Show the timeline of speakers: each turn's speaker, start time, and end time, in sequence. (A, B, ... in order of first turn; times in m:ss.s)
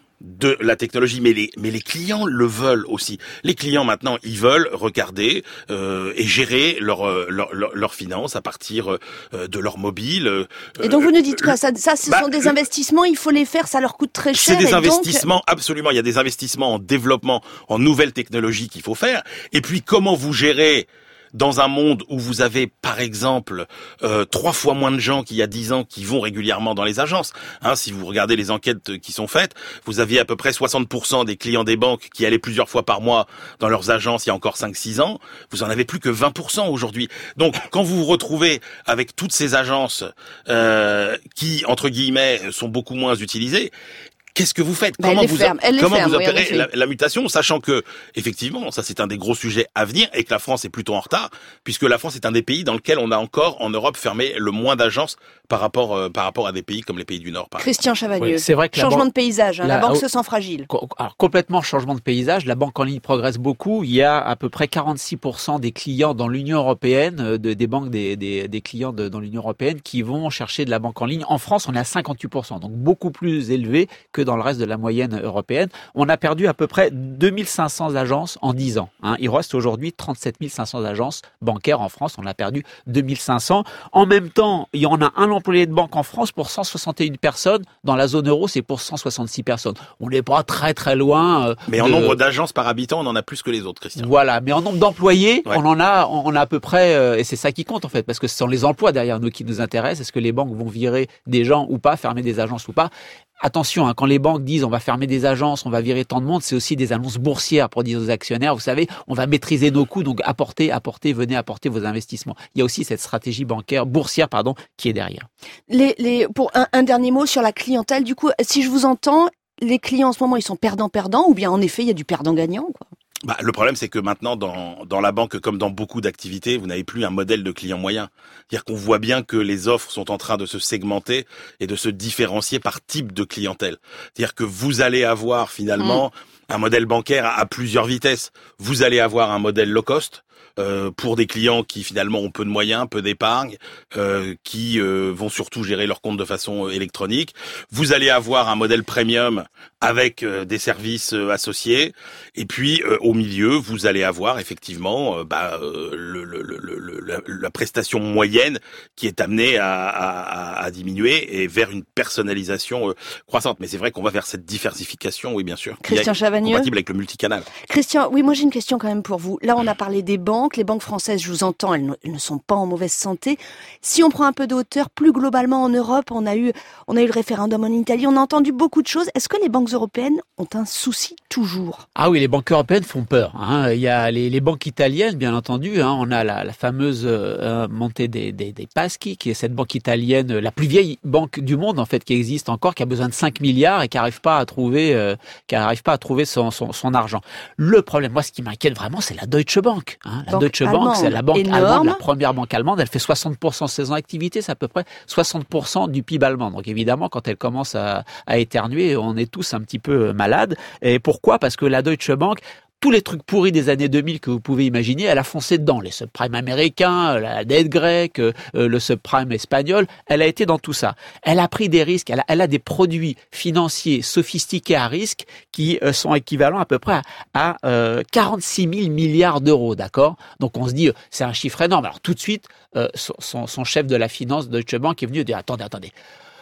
0:00.2-0:12.5 A
0:10.8-0:15.3 B
0:14.3-0:43.7 A
0:44.4-0:57.7 A
0:45.0-0:46.7 B
0:57.6-1:00.7 B
0:58.2-1:00.0 C
1:00.7-1:32.2 C
1:31.7-1:34.1 A
1:34.0-1:42.9 C
1:43.4-1:55.3 C
1:55.7-2:02.8 B
2:03.3-2:47.5 A
2:15.8-2:16.0 B
2:45.8-2:46.7 B
2:47.7-3:01.8 B
3:02.0-3:55.9 C
3:20.3-3:22.0 B